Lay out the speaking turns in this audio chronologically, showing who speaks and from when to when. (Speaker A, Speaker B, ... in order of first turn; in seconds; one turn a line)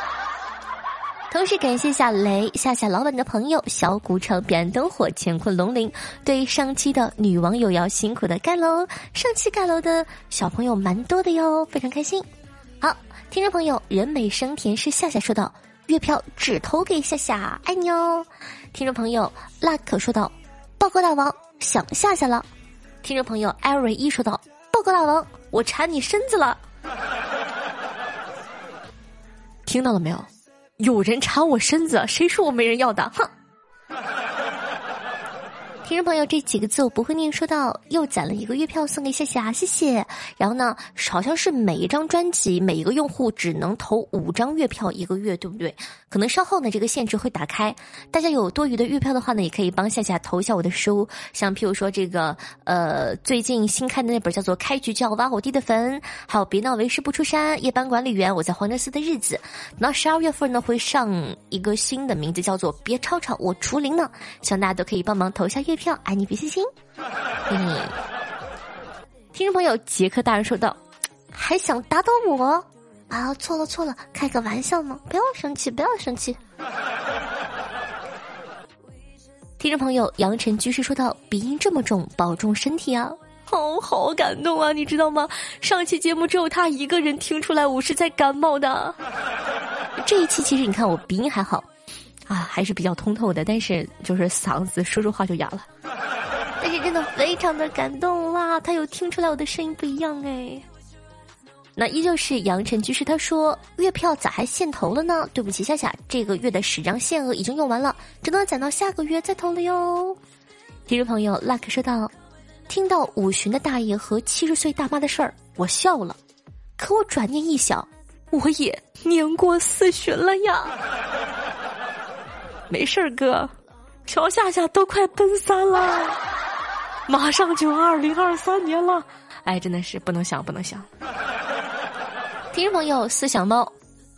Speaker A: 1.3-12.2
Speaker A: 12.8-22.4
Speaker A: 23.0-26.6
Speaker A: 29.6-33.3
Speaker A: 35.8-66.7
Speaker A: 67.5-67.9
Speaker A: 69.3-70.8
Speaker A: 71.3-76.4
Speaker A: 79.6-89.0
Speaker A: 90.0-91.7
Speaker A: 92.3-95.7
Speaker A: 96.6-100.7
Speaker A: 101.8-110.2
Speaker A: 110.9-112.1
Speaker A: 112.7-116.2
Speaker A: 116.8-120.8
Speaker A: 122.7-123.5
Speaker A: 124.0-126.2
Speaker A: 127.1-130.9
Speaker A: 132.5-133.7